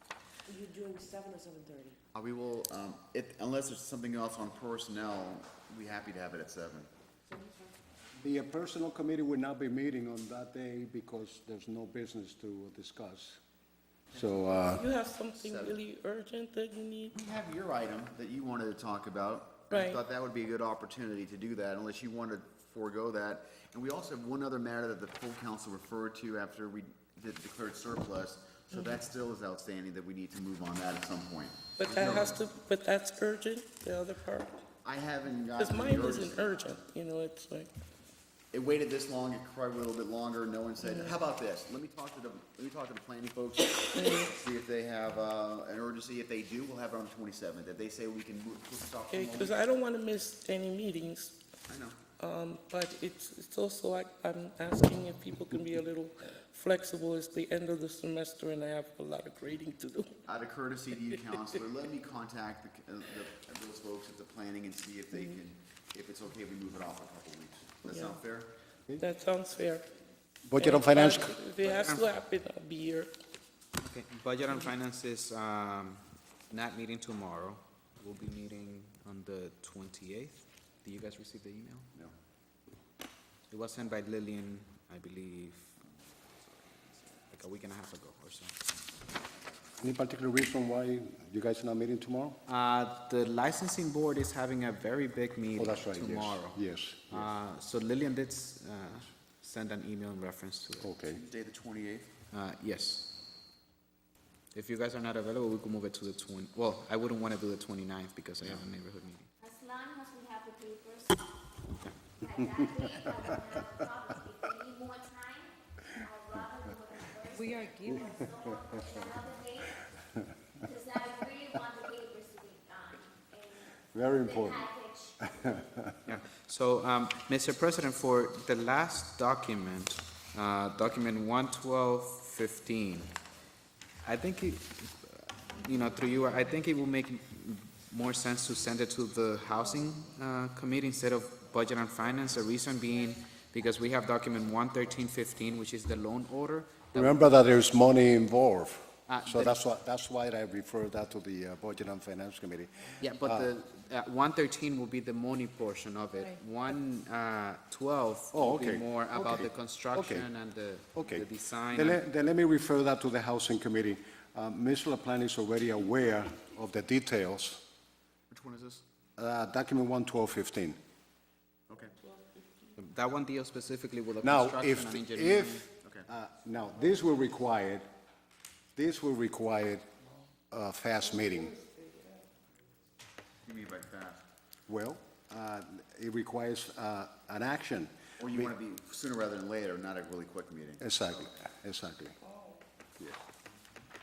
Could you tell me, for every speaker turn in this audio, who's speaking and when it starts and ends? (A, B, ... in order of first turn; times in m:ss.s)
0:00.5-0:02.0 A
0:02.1-0:06.9 B
0:07.3-0:07.8 A
0:08.2-0:13.4 C
0:14.1-0:15.8 B
0:14.1-0:14.8 C
0:14.7-0:17.2 D
0:17.1-0:32.4 B
0:19.7-0:20.0 D
0:31.8-0:34.6 D
0:34.8-0:36.8 B
0:35.6-0:37.7 D
0:38.5-0:49.6 B
0:40.8-0:41.2 D
0:43.9-0:44.4 D
0:49.1-0:51.4 D
0:51.7-0:52.0 B
0:52.2-1:00.2 D
1:00.3-1:08.5 B
1:07.9-1:08.2 D
1:09.0-1:09.9 D
1:10.4-1:11.4 C
1:10.6-1:13.1 D
1:11.6-1:12.1 E
1:13.8-1:21.9 E
1:23.5-1:25.8 E
1:27.0-1:28.5 E
1:29.8-1:32.4 C
1:32.5-1:40.9 E
1:35.6-1:37.3 C
1:40.8-1:41.2 C
1:41.1-1:42.1 B
1:42.3-1:43.1 E
1:44.5-1:49.3 E
1:49.4-1:51.2 F
1:52.2-1:59.8 F
1:52.8-1:53.4 C
1:57.8-1:59.0 C
2:00.6-2:05.6 F
2:03.9-2:05.9 C
2:06.0-2:13.2 E
2:14.0-2:27.3 E
2:26.9-2:33.5 C
2:29.1-2:29.5 E
2:33.0-2:42.0 E
2:38.3-2:40.3 C
2:40.9-2:47.6 C
2:48.3-2:48.8 B
2:49.2-2:50.8 C
2:51.8-2:52.8 D
2:52.8-2:55.7 E
2:54.2-2:57.9 C
2:58.8-2:59.8 C
3:00.5-3:01.5 C
3:01.0-3:02.3 D
3:03.4-3:04.2 B
3:04.7-3:08.5 C
3:08.2-3:11.4 B
3:10.8-3:12.1 C
3:12.2-3:12.7 D